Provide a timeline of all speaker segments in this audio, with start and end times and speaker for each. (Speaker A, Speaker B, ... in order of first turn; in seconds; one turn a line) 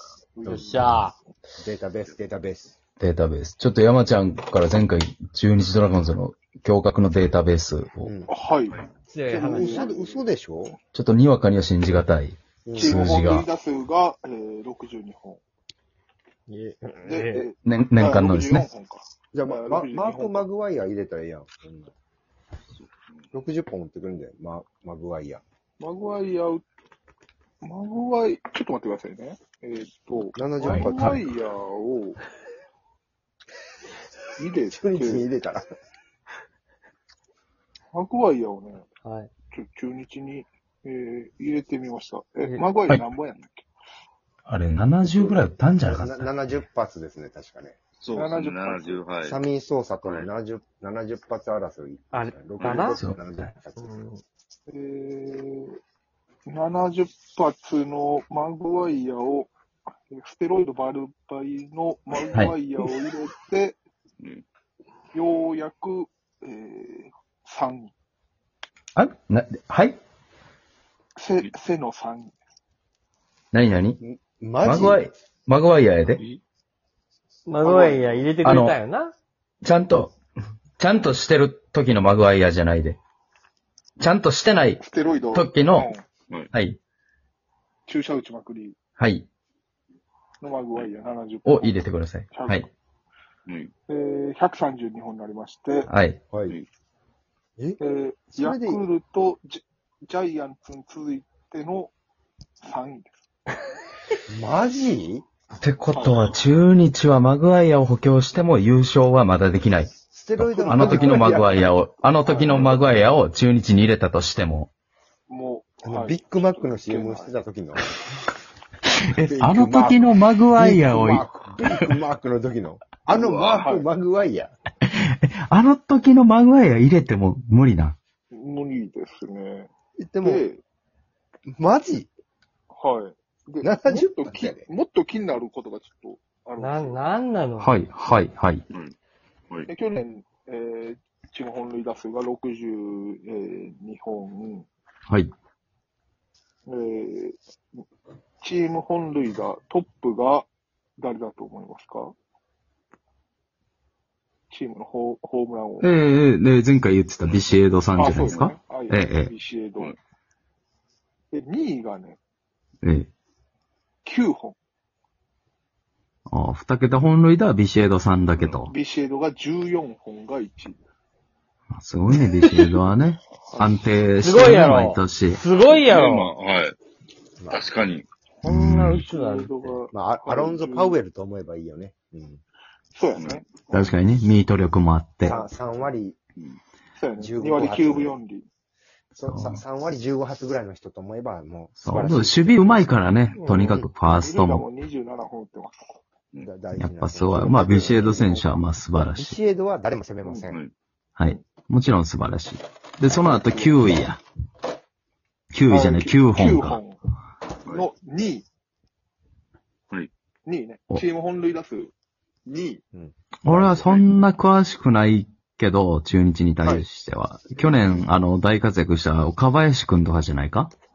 Speaker A: 0.4-1.1
Speaker B: 0.5-1.0
Speaker C: 0.5-1.1
Speaker B: 1.6-2.8
Speaker D: 3.0-8.2
Speaker A: 8.3-10.2
Speaker C: 9.1-9.8
Speaker B: 9.3-10.8
Speaker D: 10.9-13.5
Speaker B: 12.7-13.2
Speaker A: 12.7-15.4
Speaker C: 16.5-17.5
Speaker A: 17.0-20.5
Speaker D: 17.6-18.7
Speaker B: 19.3-21.9
Speaker E: 22.7-23.3
Speaker B: 23.3-25.4
Speaker A: 25.8-26.6
Speaker A: 27.6-32.2
Speaker B: 30.3-31.2
Speaker A: 34.4-35.3
Speaker B: 34.7-35.7
Speaker A: 37.9-38.9
Speaker C: 39.0-39.3
Speaker A: 39.5-43.7
Speaker D: 44.5-46.3
Speaker B: 45.1-47.8
Speaker E: 48.0-49.4
Speaker A: 48.1-49.0
Speaker B: 49.2-53.9
Speaker C: 52.1-53.0
Speaker E: 52.6-52.9
Speaker C: 53.8-54.2
Speaker A: 54.7-55.8
Speaker A: 56.5-59.5
Speaker A: 60.1-63.8
Speaker E: 64.2-64.4
Speaker A: 65.1-67.9
Speaker D: 69.0-70.0
Speaker A: 71.2-72.3
Speaker D: 73.5-74.0
Speaker B: 74.0-75.0
Speaker D: 74.6-76.2
Speaker E: 76.1-76.4
Speaker C: 77.5-79.1
Speaker A: 77.6-78.4
Speaker D: 78.4-78.8
Speaker D: 79.6-80.2
Speaker D: 80.8-83.0
Speaker D: 84.0-85.9
Speaker A: 84.8-86.0
Speaker D: 86.5-86.8
Speaker A: 87.9-88.8
Speaker D: 89.0-89.3
Speaker A: 90.4-91.8
Speaker D: 91.5-92.7
Speaker A: 92.3-92.7
Speaker E: 93.5-93.7
Speaker A: 93.9-95.9
Speaker D: 95.9-96.2
Speaker A: 97.8-101.9
Speaker B: 98.3-98.8
Speaker A: 102.6-103.2
Speaker B: 104.3-105.2
Speaker D: 105.6-114.7
Speaker A: 105.9-106.4
Speaker B: 110.1-112.8
Speaker A: 110.6-111.7
Speaker A: 112.3-112.8
Speaker A: 115.3-117.3
Speaker B: 115.8-117.9
Speaker D: 119.1-121.9
Speaker B: 119.2-124.5
Speaker A: 123.1-123.9
Speaker D: 124.9-128.0
Speaker A: 128.3-129.7
Speaker B: 130.0-130.4
Speaker A: 130.2-130.6
Speaker B: 131.5-132.1
Speaker A: 132.7-137.1
Speaker B: 133.6-134.7
Speaker C: 136.6-137.8
Speaker D: 137.6-138.7
Speaker A: 139.7-144.7
Speaker A: 146.7-147.4
Speaker A: 148.4-150.5
Speaker A: 151.0-152.1
Speaker A: 154.5-155.9
Speaker D: 155.8-159.3
Speaker A: 158.0-159.9
Speaker E: 158.2-158.5
Speaker A: 161.3-162.2
Speaker D: 162.8-163.1
Speaker A: 164.1-164.6
Speaker D: 166.3-168.7
Speaker E: 168.3-168.6
Speaker A: 168.6-170.8
Speaker D: 171.7-175.4
Speaker A: 172.5-172.8
Speaker A: 173.5-173.8
Speaker C: 174.2-176.3
Speaker E: 175.7-176.8
Speaker E: 177.5-178.1
Speaker B: 178.4-179.1
Speaker D: 178.4-179.0
Speaker C: 178.8-179.5
Speaker A: 179.0-181.0
Speaker B: 179.9-182.4
Speaker A: 182.9-183.8
Speaker E: 183.2-183.5
Speaker D: 183.7-185.4
Speaker B: 185.2-186.2
Speaker A: 187.0-188.5
Speaker B: 187.2-188.2
Speaker B: 189.2-193.9
Speaker D: 189.3-189.6
Speaker D: 191.8-194.7
Speaker C: 193.4-193.8
Speaker A: 194.0-195.8
Speaker B: 196.4-200.6
Speaker D: 196.8-199.4
Speaker E: 200.4-200.7
Speaker D: 201.2-204.2
Speaker A: 203.1-203.7
Speaker D: 205.5-206.8
Speaker A: 205.7-207.0
Speaker A: 207.7-208.4
Speaker A: 210.5-211.9
Speaker A: 212.5-212.8
Speaker B: 212.9-213.8
Speaker D: 213.4-220.7
Speaker A: 213.8-214.1